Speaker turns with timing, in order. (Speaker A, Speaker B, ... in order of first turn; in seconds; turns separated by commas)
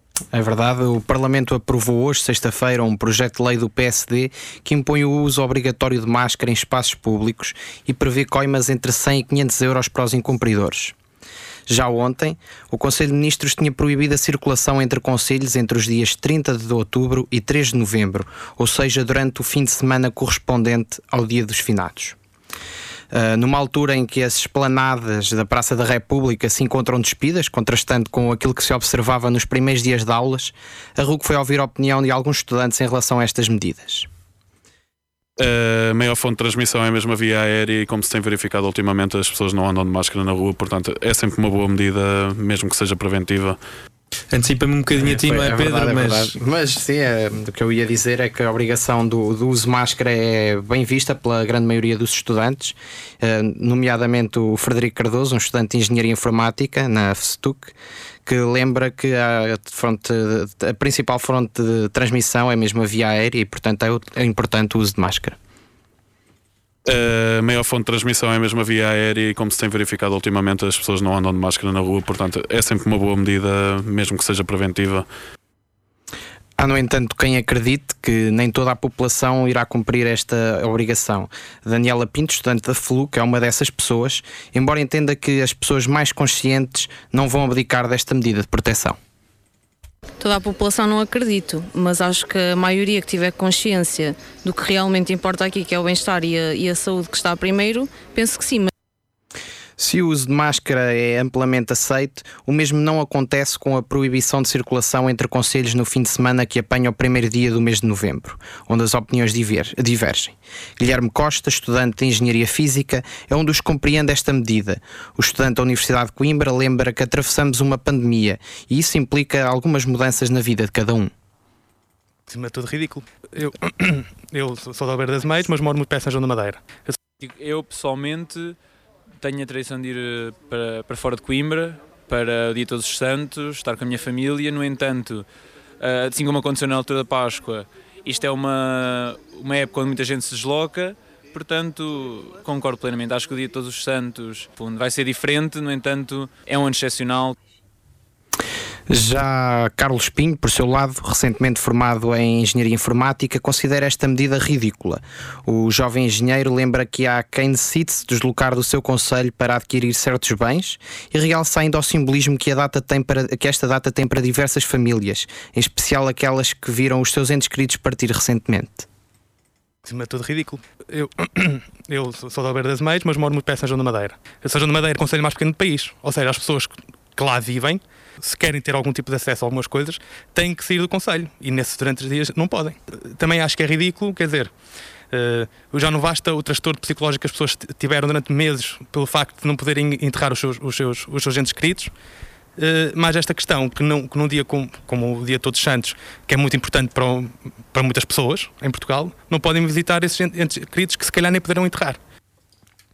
Speaker A: 0.3-10.9, Speaker A: 11.7-22.2, Speaker A: 23.1-34.1, Speaker B: 35.4-43.6, Speaker C: 44.3-46.4, Speaker A: 44.9-57.7, Speaker A: 58.3-65.4, Speaker B: 66.9-75.1, Speaker A: 76.6-89.0, Speaker D: 90.2-98.7, Speaker A: 99.8-121.1, Speaker E: 122.3-127.0, Speaker F: 127.2-128.6, Speaker F: 129.2-135.3, Speaker F: 135.8-147.4, Speaker A: 148.9-168.9, Speaker E: 169.8-184.5, Speaker E: 185.1-191.9, Speaker E: 192.6-202.0